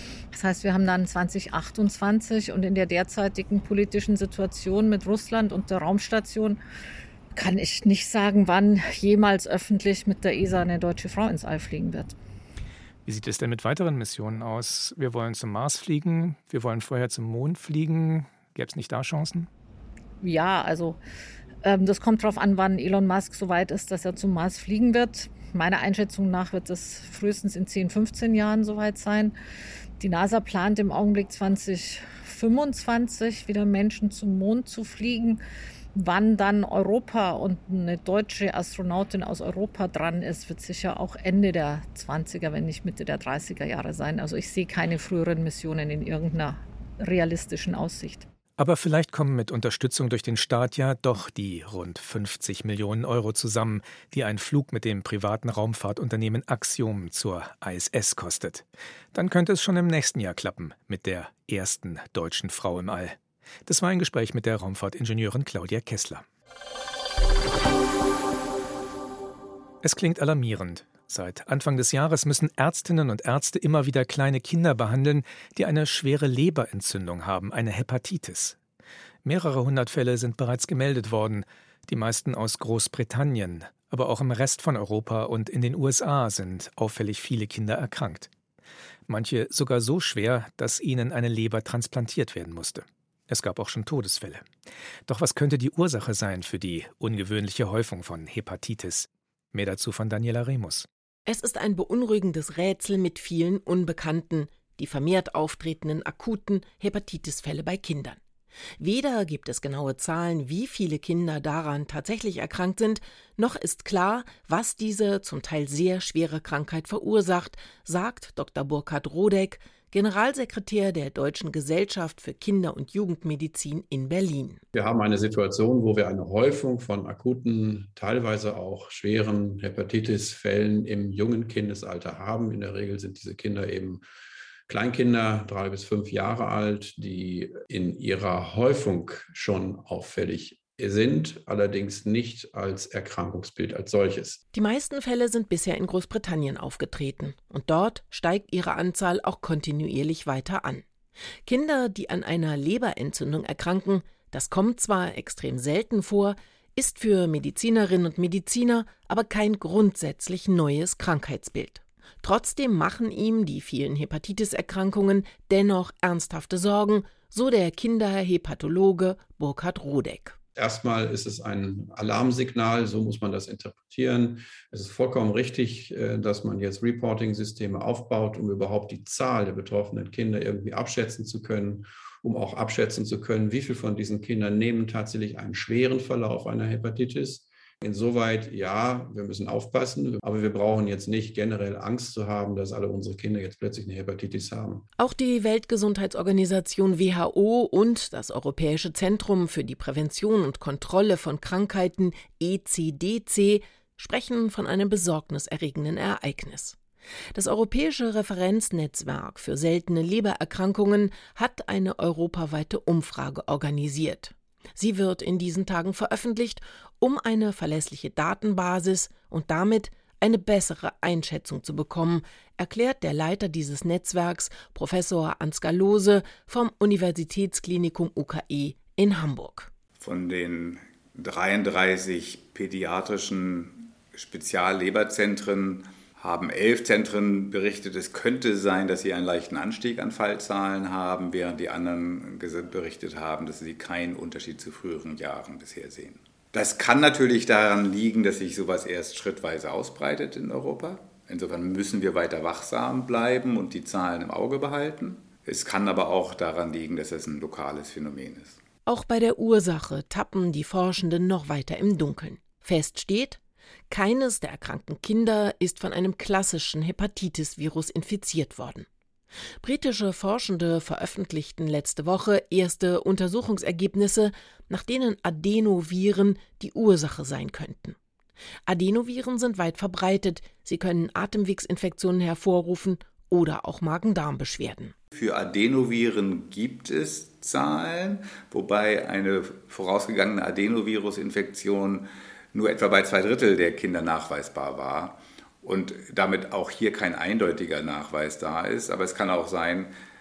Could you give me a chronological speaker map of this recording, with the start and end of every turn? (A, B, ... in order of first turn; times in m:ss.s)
0:00.3-0:06.6 A
0:07.4-0:12.2 A
0:13.0-0:19.5 B
0:20.2-0:21.0 A
0:21.6-0:29.4 A
0:30.0-0:35.4 A
0:36.0-0:48.3 A
0:48.6-1:06.2 B
1:09.8-1:18.6 B
1:19.2-1:28.3 B
1:29.1-1:34.5 B
1:35.1-1:40.9 B
1:41.3-1:48.2 C
1:48.8-2:04.6 C
2:04.8-2:14.0 D
2:14.7-2:24.4 D
2:24.5-2:30.8 C
2:31.4-2:50.4 C
2:50.6-3:14.8 D
3:15.0-3:26.8 C
3:27.3-3:49.7 C
3:50.0-4:18.6 E
4:18.9-4:28.9 C
4:29.6-4:38.0 C
4:38.7-4:44.9 C
4:45.1-4:59.9 E